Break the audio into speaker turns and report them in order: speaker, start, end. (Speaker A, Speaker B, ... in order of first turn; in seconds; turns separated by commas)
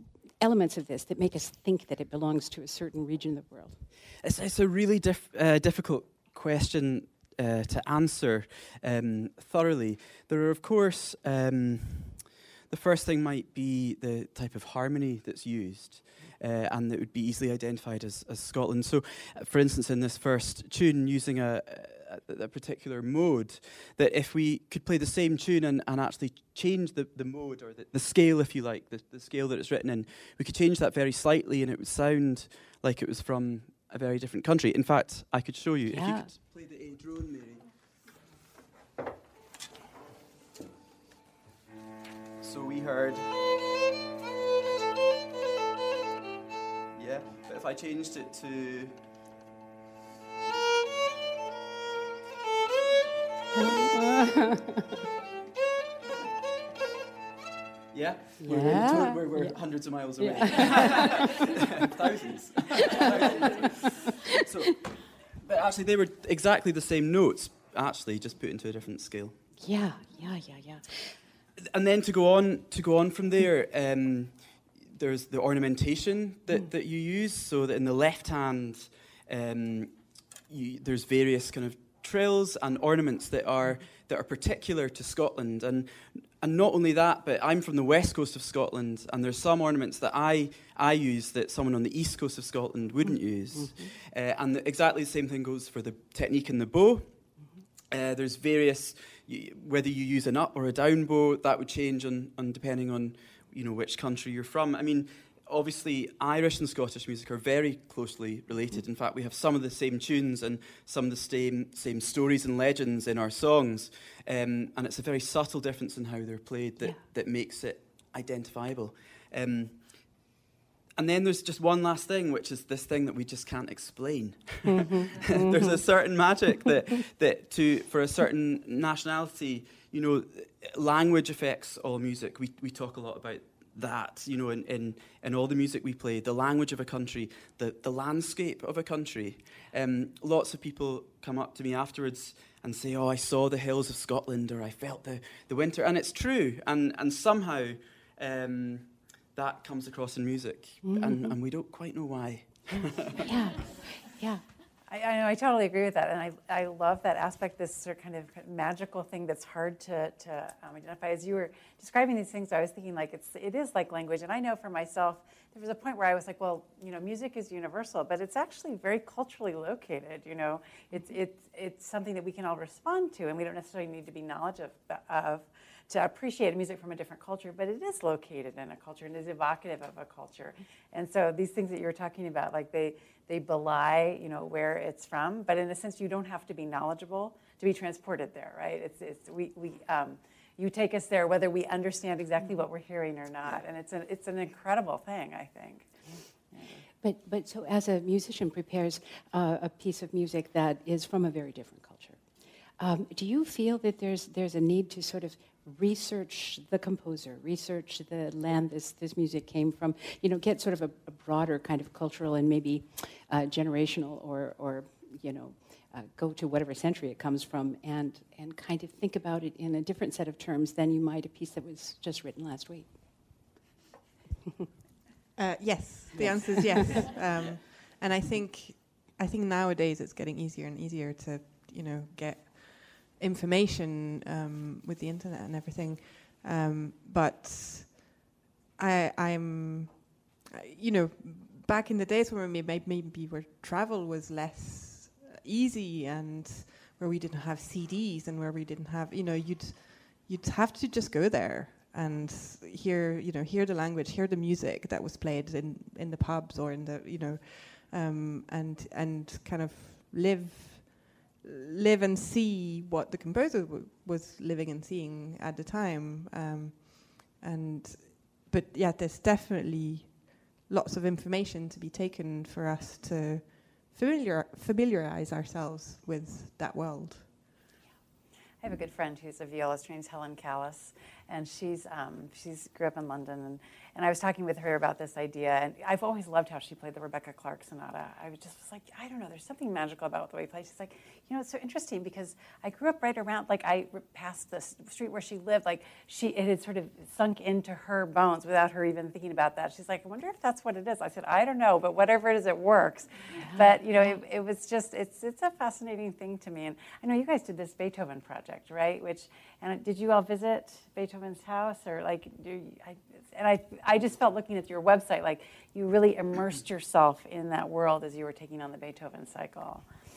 Speaker A: 0.4-3.9, Speaker B: 4.2-37.7, Speaker A: 35.9-36.3, Speaker B: 42.4-43.3, Speaker B: 46.9-49.0, Speaker A: 53.6-54.4, Speaker B: 57.9-69.4, Speaker A: 58.4-61.3, Speaker A: 69.6-71.2, Speaker B: 71.7-97.3, Speaker A: 93.1-93.9, Speaker B: 97.9-120.2, Speaker B: 121.0-153.3, Speaker A: 124.7-125.8, Speaker A: 150.8-151.4, Speaker A: 153.2-154.4, Speaker C: 154.9-196.8, Speaker A: 197.0-202.2, Speaker A: 202.8-223.4, Speaker D: 225.4-238.2, Speaker A: 226.1-227.0, Speaker D: 238.8-277.3, Speaker C: 278.6-319.9, Speaker A: 303.3-304.2